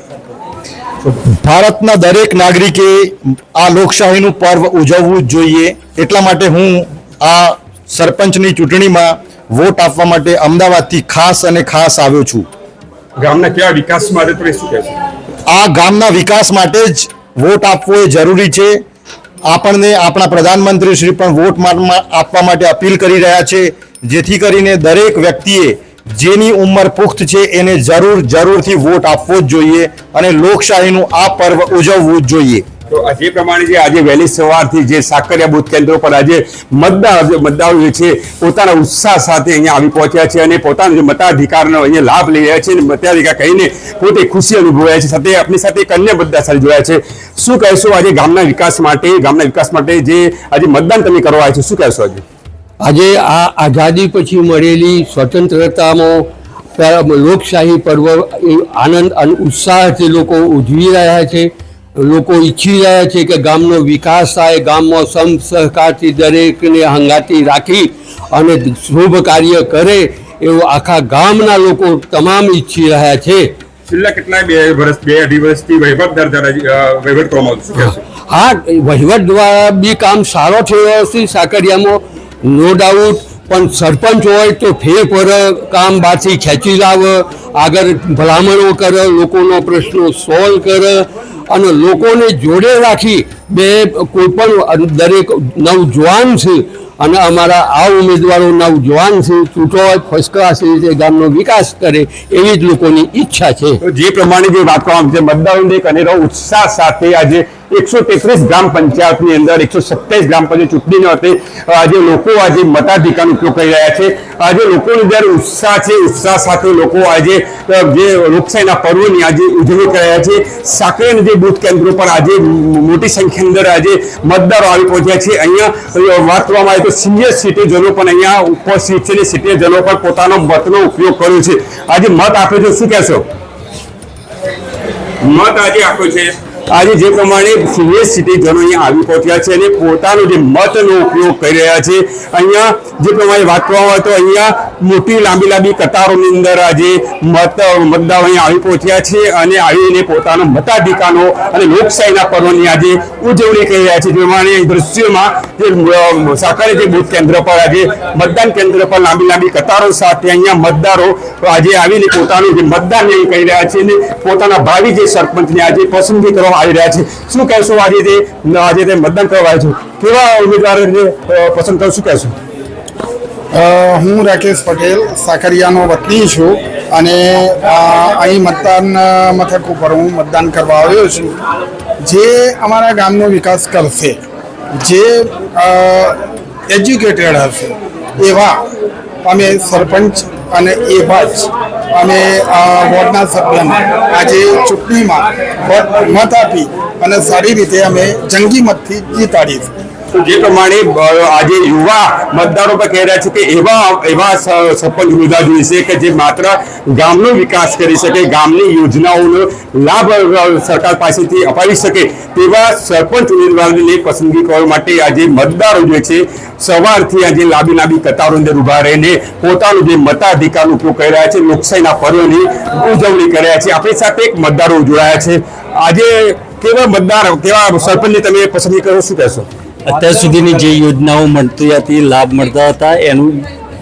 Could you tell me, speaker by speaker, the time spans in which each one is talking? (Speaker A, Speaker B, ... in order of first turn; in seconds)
Speaker A: 1.1-12.5, 15.5-18.8, 19.5-32.7
Speaker B: 13.2-14.9, 32.9-52.2, 73.9-78.0, 103.8-133.2, 135.2-172.3, 200.1-229.5
Speaker C: 52.8-73.5, 78.3-103.8
Speaker D: 173.5-181.3, 182.0-184.2, 184.8-188.6, 189.2-199.7
Speaker E: 229.8-233.5